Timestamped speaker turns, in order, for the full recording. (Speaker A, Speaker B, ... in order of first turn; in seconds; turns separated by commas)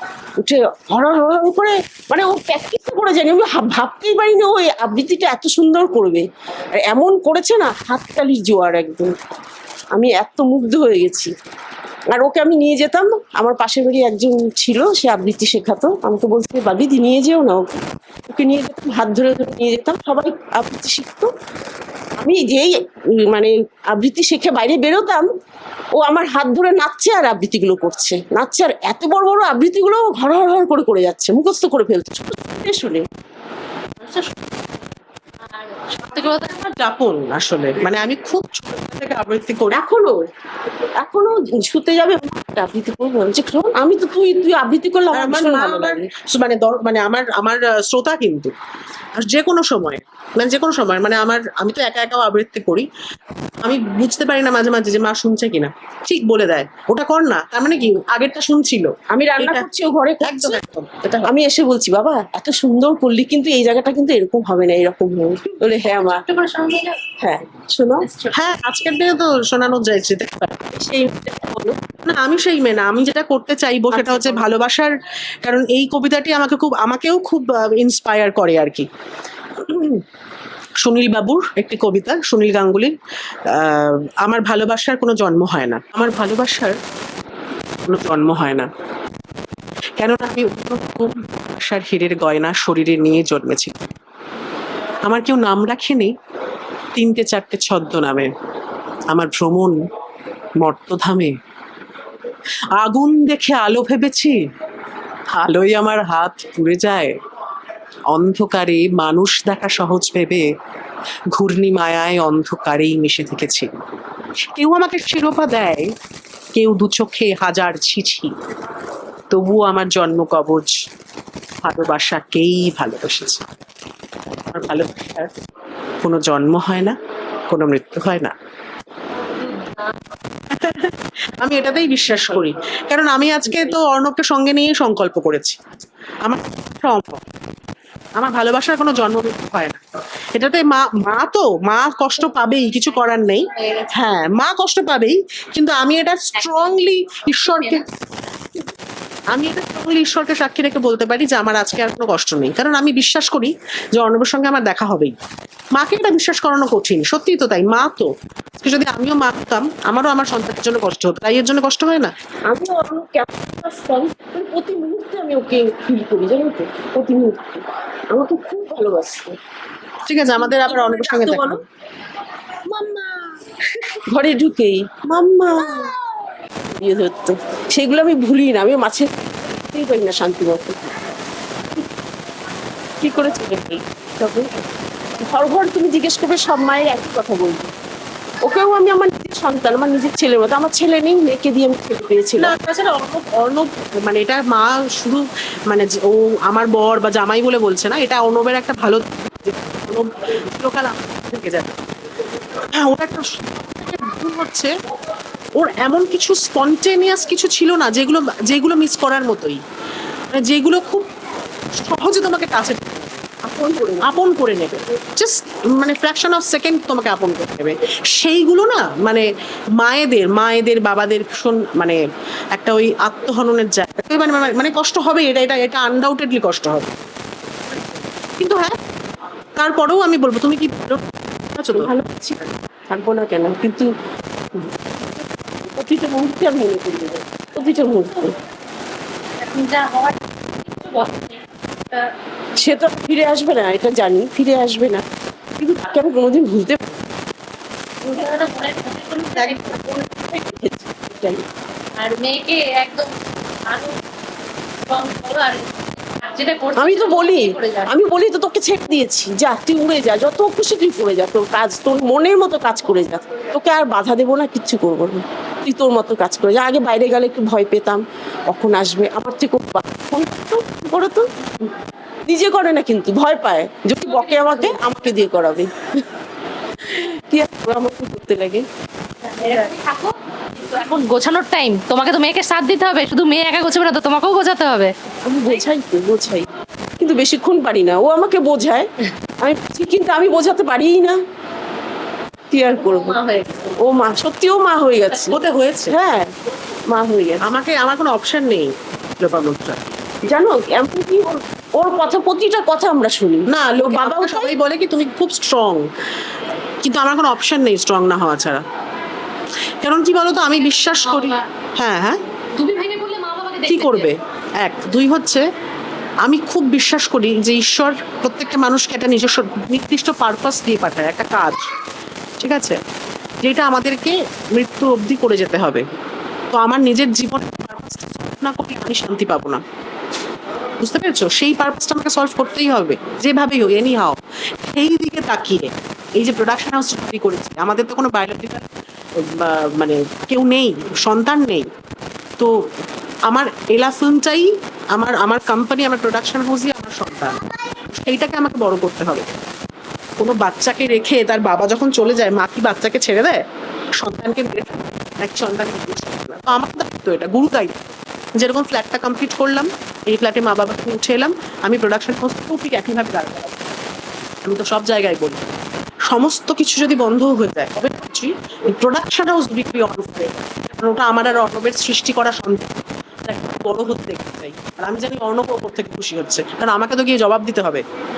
Speaker A: 0.4-9.2, Speaker A: 9.9-11.3, Speaker A: 12.1-21.3, Speaker A: 22.2-25.3, Speaker A: 25.9-33.1, Speaker B: 34.0-34.7, Speaker B: 35.5-36.6, Speaker C: 36.2-39.8, Speaker A: 39.7-40.2, Speaker A: 41.0-46.1, Speaker C: 45.1-48.5, Speaker C: 49.2-52.9, Speaker C: 53.6-59.7, Speaker A: 59.1-60.6, Speaker C: 60.2-61.3, Speaker A: 61.2-66.2, Speaker B: 66.0-67.0, Speaker A: 67.2-68.1, Speaker B: 68.0-68.4, Speaker C: 68.3-70.7, Speaker A: 70.8-71.8, Speaker C: 72.0-78.9, Speaker A: 73.9-74.5, Speaker C: 79.6-80.0, Speaker C: 80.8-82.9, Speaker C: 83.5-86.8, Speaker C: 87.9-88.7, Speaker C: 90.0-93.9, Speaker C: 95.0-96.1, Speaker C: 97.0-98.3, Speaker C: 99.1-99.8, Speaker C: 100.6-101.3, Speaker C: 102.8-104.4, Speaker C: 105.3-107.2, Speaker C: 108.1-110.5, Speaker C: 111.3-113.7, Speaker C: 114.4-115.9, Speaker C: 116.5-118.3, Speaker C: 119.3-120.8, Speaker C: 121.6-123.5, Speaker C: 124.5-125.3, Speaker C: 126.0-127.0, Speaker C: 127.5-128.3, Speaker C: 130.5-135.6, Speaker C: 136.2-137.2, Speaker C: 138.2-139.8, Speaker C: 140.4-147.8, Speaker B: 143.5-143.9, Speaker B: 147.5-147.8, Speaker C: 149.3-155.2, Speaker C: 155.7-162.1, Speaker A: 162.5-169.4, Speaker C: 170.1-171.6, Speaker A: 170.3-171.6, Speaker A: 174.0-176.0, Speaker A: 176.6-181.0, Speaker A: 183.0-184.7, Speaker A: 185.2-187.7, Speaker A: 188.4-192.5, Speaker C: 192.4-201.8, Speaker C: 202.7-204.7, Speaker C: 205.6-209.6, Speaker C: 210.3-211.1, Speaker C: 211.7-213.2, Speaker A: 213.4-214.1, Speaker C: 214.0-219.3, Speaker C: 219.8-222.0, Speaker C: 222.5-226.9, Speaker C: 228.4-228.8, Speaker C: 229.6-231.9, Speaker A: 231.7-233.9, Speaker A: 234.5-238.4, Speaker B: 239.4-242.1, Speaker A: 242.6-247.1, Speaker B: 248.0-249.9, Speaker A: 249.4-251.4, Speaker B: 252.0-254.0, Speaker B: 254.9-257.9, Speaker A: 256.8-271.3, Speaker A: 272.3-276.1, Speaker B: 274.0-274.8, Speaker A: 276.8-278.7, Speaker B: 279.3-284.9, Speaker A: 285.2-286.5, Speaker A: 287.0-291.2, Speaker A: 292.5-293.2, Speaker B: 292.8-293.7, Speaker A: 293.8-296.3, Speaker C: 295.3-296.0, Speaker A: 296.9-297.4, Speaker C: 297.4-299.9, Speaker A: 300.3-304.6, Speaker C: 303.5-305.9, Speaker C: 306.8-308.6, Speaker C: 309.8-312.2, Speaker B: 310.8-311.4, Speaker B: 312.6-314.1, Speaker C: 313.7-315.4, Speaker C: 316.2-321.6, Speaker C: 322.4-322.8, Speaker C: 323.4-325.8, Speaker C: 326.5-329.6, Speaker C: 330.8-338.7, Speaker C: 339.2-341.7, Speaker C: 343.3-347.4, Speaker C: 347.9-349.3, Speaker C: 350.2-353.4, Speaker C: 354.0-363.6, Speaker C: 364.4-365.4, Speaker C: 366.1-377.8